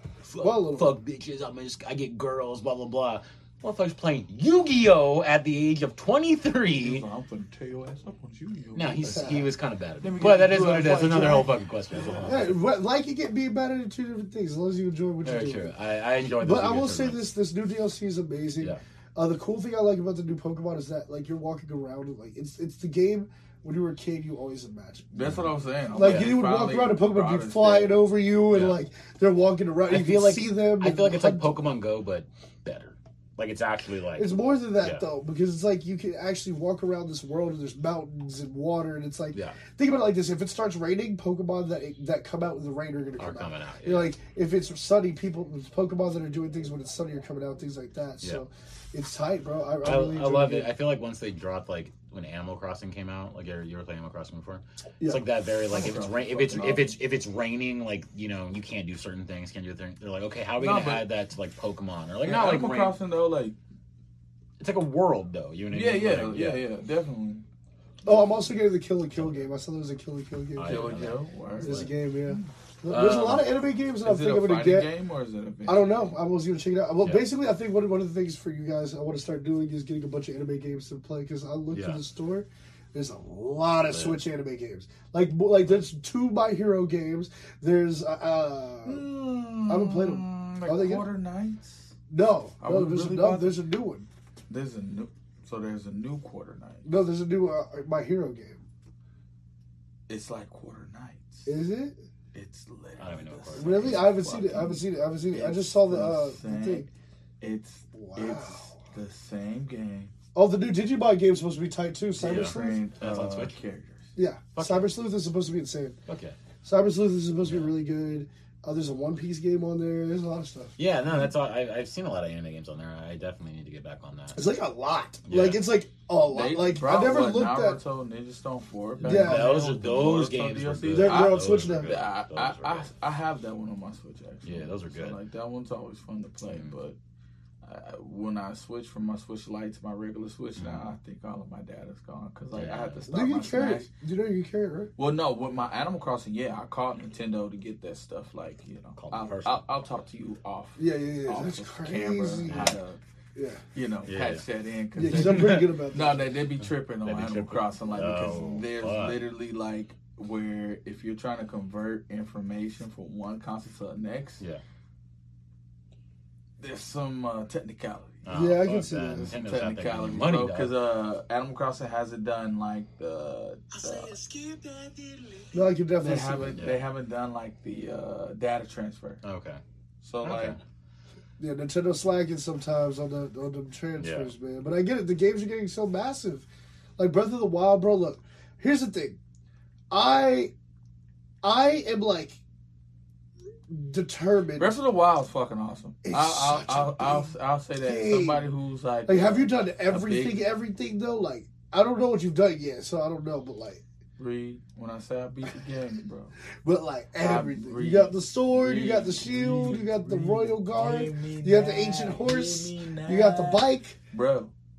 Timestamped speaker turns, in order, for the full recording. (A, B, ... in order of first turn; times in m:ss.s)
0:00.2-0:07.0 A
0:00.4-0:01.0 B
0:06.8-0:09.3 C
0:08.7-0:12.6 A
0:09.1-0:09.5 B
0:10.0-0:12.3 C
0:12.2-0:15.7 B
0:15.2-0:17.3 A
0:16.4-0:25.1 B
0:25.1-0:28.1 C
0:25.2-0:26.4 A
0:25.9-0:31.6 B
0:28.5-0:28.8 A
0:29.9-0:35.1 A
0:34.2-0:50.7 B
0:43.2-0:44.2 A
0:49.8-1:03.0 A
0:55.7-0:56.9 C
1:00.6-1:01.1 C
1:02.2-1:03.6 C
1:04.6-1:06.6 A
1:05.7-1:07.4 C
1:08.0-1:11.0 B
1:10.6-1:11.9 A
1:10.6-1:12.5 C
1:11.6-1:14.9 B
1:12.9-1:13.6 A
1:14.0-1:16.2 C
1:15.7-1:29.1 B
1:17.0-1:17.3 A
1:21.7-1:22.0 A
1:23.9-1:24.2 A
1:28.8-1:31.9 C
1:29.7-1:31.1 B
1:32.1-1:34.1 B
1:32.6-1:33.6 C
1:34.5-1:36.9 C
1:36.8-1:38.6 B
1:40.1-1:41.5 C
1:41.5-1:42.0 B
1:42.3-1:46.9 C
1:43.0-1:44.1 A
1:43.5-1:46.9 B
1:47.4-1:50.1 C
1:47.9-1:48.8 B
1:50.3-1:52.8 B
1:52.2-1:54.1 C
1:52.2-1:53.6 A
1:54.2-1:56.0 B
1:54.6-1:54.9 A
1:56.1-1:56.4 A
1:56.6-2:00.7 B
1:57.4-1:57.8 A
2:00.8-2:04.4 A
2:04.3-2:07.8 B
2:05.2-2:05.6 A
2:06.3-2:17.0 C
2:09.0-2:09.6 B
2:09.0-2:12.9 A
2:10.9-2:12.0 B
2:14.4-2:15.2 A
2:16.5-2:16.8 A
2:17.6-2:23.9 C
2:20.6-2:20.8 A
2:22.5-2:23.1 A
2:23.1-2:24.9 B
2:25.0-2:33.0 C
2:29.0-2:29.8 A
2:30.8-2:32.8 B
2:32.5-2:32.8 A
2:33.4-2:33.6 B
2:33.7-2:44.4 C
2:34.0-2:34.4 A
2:35.0-2:36.2 B
2:35.1-2:35.6 A
2:36.6-2:39.2 A
2:46.6-2:54.2 C
2:48.2-2:50.7 A
2:48.3-2:49.3 B
2:55.5-2:56.6 B
2:56.0-2:59.2 C
2:56.4-2:56.8 A
2:59.2-2:59.6 A
3:00.0-3:00.6 C
3:00.2-3:00.6 A
3:01.4-3:09.2 B
3:04.0-3:04.3 A
3:09.9-3:10.5 B
3:11.4-3:12.4 B
3:13.7-3:14.8 B
3:14.6-3:20.4 C
3:16.0-3:18.5 B
3:19.1-3:23.8 B
3:24.2-3:26.4 C
3:26.6-3:34.0 B
3:27.2-3:34.5 C